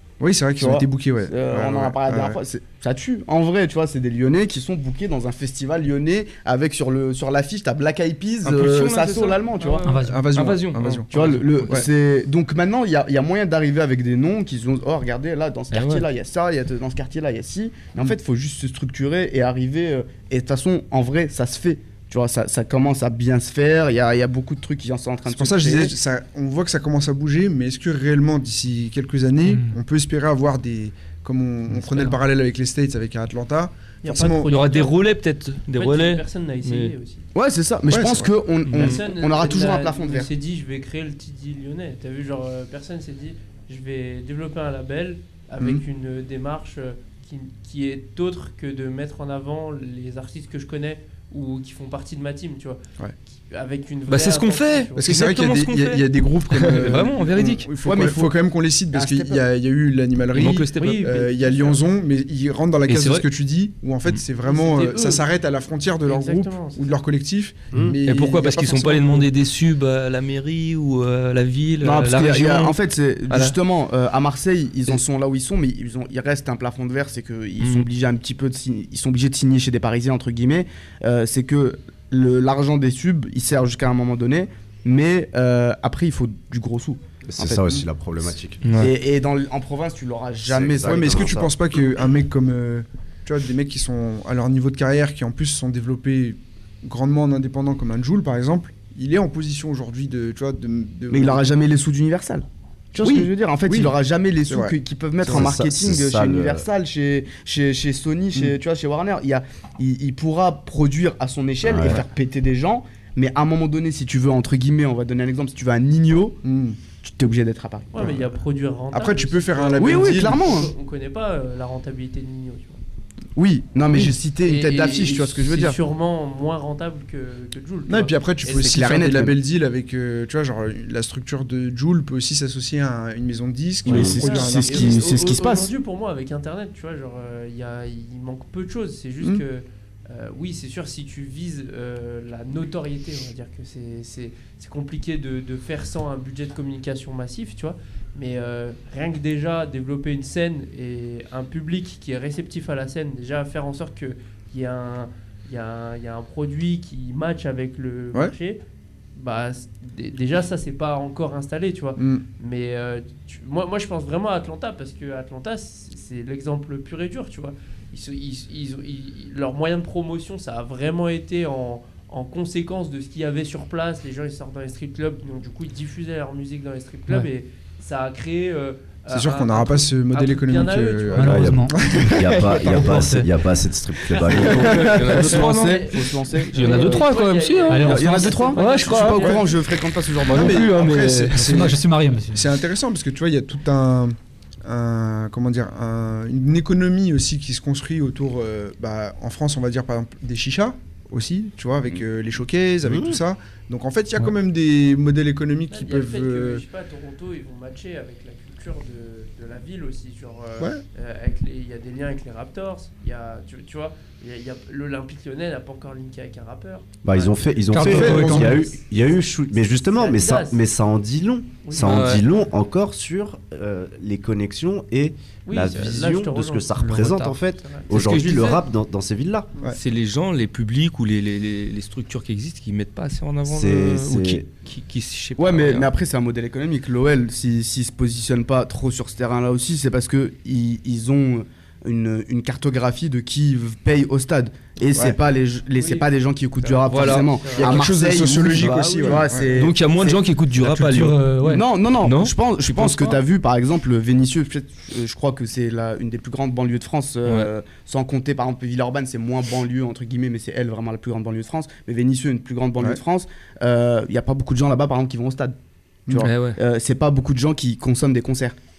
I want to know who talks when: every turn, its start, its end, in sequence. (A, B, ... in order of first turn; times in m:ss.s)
0:00.2-0:02.4 A
0:00.6-0:09.8 B
0:08.4-0:11.8 C
0:09.8-0:10.3 D
0:10.0-0:11.9 A
0:11.1-0:25.9 B
0:15.7-0:16.0 C
0:25.3-0:34.5 A
0:29.4-0:29.8 D
0:31.7-0:32.2 D
0:34.0-0:35.0 E
0:34.5-0:36.9 C
0:35.7-0:37.3 E
0:37.3-0:40.3 B
0:37.9-0:38.3 A
0:38.6-0:39.0 C
0:38.8-0:52.8 E
0:53.5-0:55.1 E
0:54.1-0:57.7 C
0:55.0-1:09.3 A
0:57.8-0:58.4 B
0:58.9-0:59.4 B
1:00.3-1:01.2 C
1:00.8-1:01.8 E
1:02.9-1:03.2 C
1:04.4-1:05.2 E
1:06.0-1:06.9 E
1:07.9-1:12.8 C
1:11.8-1:27.7 B
1:13.3-1:13.6 C
1:17.6-1:17.9 C
1:27.3-1:28.9 F
1:28.6-1:28.9 C
1:28.8-1:31.5 B
1:30.4-1:31.5 F
1:30.8-1:41.5 A
1:41.1-1:56.4 B
1:43.0-1:43.9 A
1:44.5-1:45.4 A
1:45.2-1:46.7 F
1:51.6-1:52.0 F
1:56.4-1:56.8 A
1:57.0-1:58.1 B
1:57.9-2:02.8 E
1:58.9-2:00.4 A
1:59.8-2:00.7 B
2:03.4-2:05.8 B
2:04.4-2:08.8 E
2:07.9-2:15.0 A
2:08.4-2:09.3 B
2:13.8-2:15.7 B
2:13.9-2:14.2 F
2:14.1-2:38.6 E
2:39.2-3:01.6 E
2:42.0-2:42.2 A
2:59.1-3:03.0 A
3:01.2-3:03.3 D
3:01.2-3:05.0 F
3:04.3-3:09.5 C
3:04.3-3:10.9 B
3:05.1-3:09.6 E
3:07.7-3:08.3 D
3:10.2-3:11.6 C
3:10.3-3:11.8 A
3:11.3-3:12.5 D
3:12.3-3:26.6 A
3:22.8-3:23.2 F
3:25.7-3:37.6 E
3:37.0-3:49.5 F
3:37.7-3:38.7 D
3:37.7-3:38.7 A
3:39.7-3:40.6 E
3:41.6-3:42.2 E
3:41.8-3:42.2 C
3:45.5-3:47.9 E
3:46.8-3:47.1 D
3:47.9-3:48.6 C
3:49.7-3:55.9 C
3:53.5-3:54.4 F
3:55.4-4:10.2 B
4:05.7-4:06.1 E
4:06.6-4:07.8 E
4:06.8-4:07.4 C
4:07.6-4:09.5 A
4:09.5-4:13.2 C
4:10.6-4:11.6 D
4:11.4-4:25.6 B
4:17.2-4:17.5 C
4:26.1-4:28.6 B
4:26.2-4:26.6 C